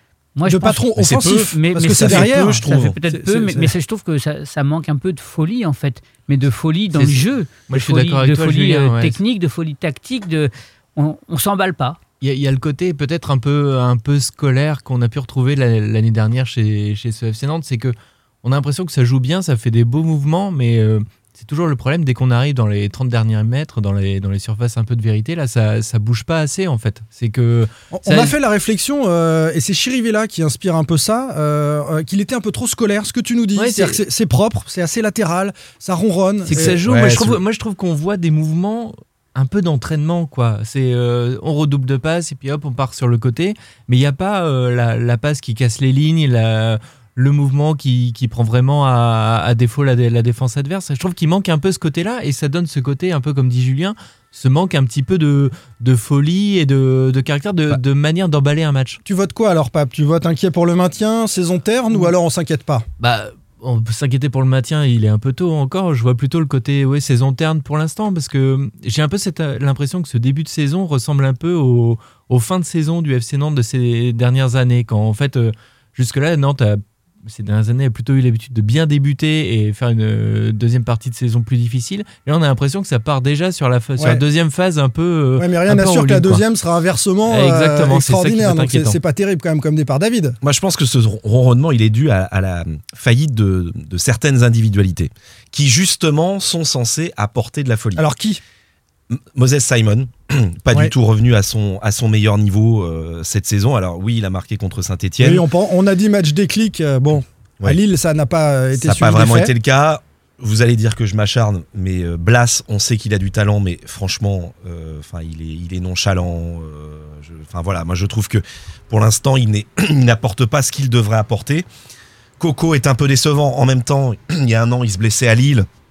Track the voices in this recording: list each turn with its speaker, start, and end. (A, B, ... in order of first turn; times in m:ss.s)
0:00.4-0:12.0 A
0:00.4-0:03.7 B
0:01.0-0:03.0 C
0:06.9-0:09.2 D
0:12.2-0:28.3 D
0:27.9-0:36.8 B
0:33.6-0:34.0 D
0:36.4-0:59.0 D
0:36.5-0:37.4 C
0:59.0-1:02.9 B
1:03.0-1:26.4 D
1:24.0-1:24.2 B
1:25.4-1:30.4 B
1:27.3-1:29.0 D
1:30.4-1:38.1 C
1:37.9-1:38.4 B
1:39.1-1:45.4 C
1:45.2-1:49.5 B
1:48.8-2:01.6 C
2:02.4-2:05.7 C